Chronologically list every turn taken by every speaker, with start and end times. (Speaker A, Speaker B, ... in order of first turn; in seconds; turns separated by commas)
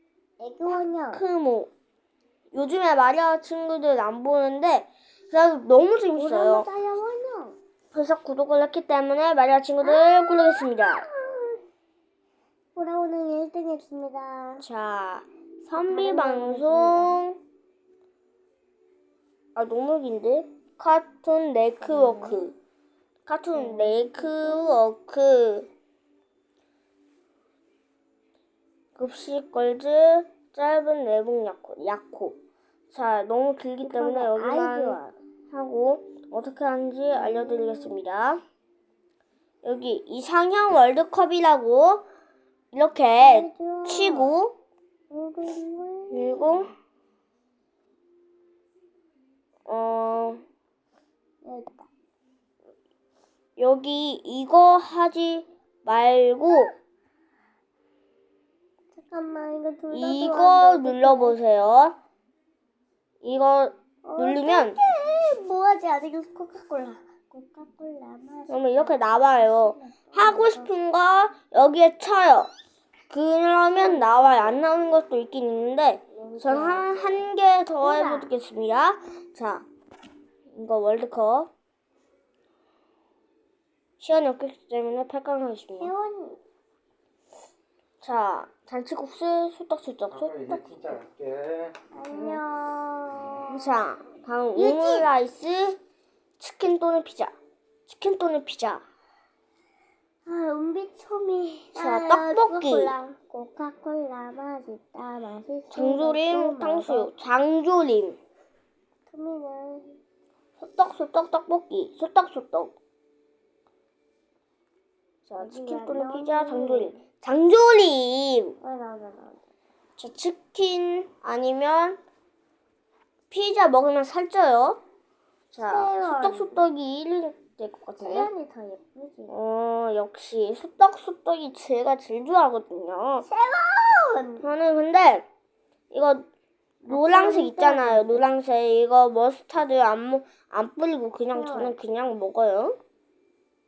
Speaker A: 0.4-1.2, Speaker B: 1.1-1.7, Speaker B: 2.5-6.7, Speaker A: 6.2-7.6, Speaker B: 7.9-11.1, Speaker A: 9.8-11.6, Speaker A: 12.8-14.6, Speaker B: 14.6-17.4, Speaker A: 15.7-17.2, Speaker B: 19.6-22.6, Speaker A: 21.8-22.5, Speaker B: 23.3-25.7, Speaker A: 23.5-24.8, Speaker B: 28.9-32.4, Speaker B: 32.9-35.0, Speaker A: 33.8-35.2, Speaker B: 35.5-38.4, Speaker A: 37.2-38.0, Speaker B: 39.6-42.0, Speaker B: 42.7-44.6, Speaker A: 43.2-44.4, Speaker A: 45.1-46.7, Speaker B: 46.1-46.7, Speaker B: 49.7-50.4, Speaker A: 51.4-51.9, Speaker B: 53.6-56.7, Speaker A: 58.9-61.4, Speaker B: 59.9-62.0, Speaker B: 63.2-64.8, Speaker A: 64.1-70.7, Speaker B: 68.5-72.5, Speaker B: 73.1-79.7, Speaker A: 73.7-74.4, Speaker A: 76.1-77.3, Speaker A: 77.8-78.3, Speaker B: 80.5-81.5, Speaker B: 84.0-85.9, Speaker A: 85.8-86.4, Speaker B: 88.0-91.0, Speaker C: 90.2-92.4, Speaker A: 91.9-93.8, Speaker B: 93.5-95.8, Speaker A: 94.5-95.1, Speaker B: 96.4-97.3, Speaker B: 97.9-98.8, Speaker A: 100.2-107.1, Speaker B: 101.7-102.9, Speaker B: 105.7-108.2, Speaker A: 109.1-110.0, Speaker B: 110.6-112.7, Speaker B: 115.3-118.6, Speaker A: 115.4-117.0, Speaker A: 118.6-119.4, Speaker B: 120.0-122.0, Speaker B: 123.3-124.8, Speaker A: 125.5-126.7, Speaker B: 125.5-128.3, Speaker A: 128.0-129.3, Speaker B: 129.3-133.3, Speaker A: 133.2-134.4, Speaker B: 134.4-135.3, Speaker B: 135.9-136.2, Speaker A: 136.8-138.2, Speaker B: 136.9-142.8, Speaker A: 141.3-141.8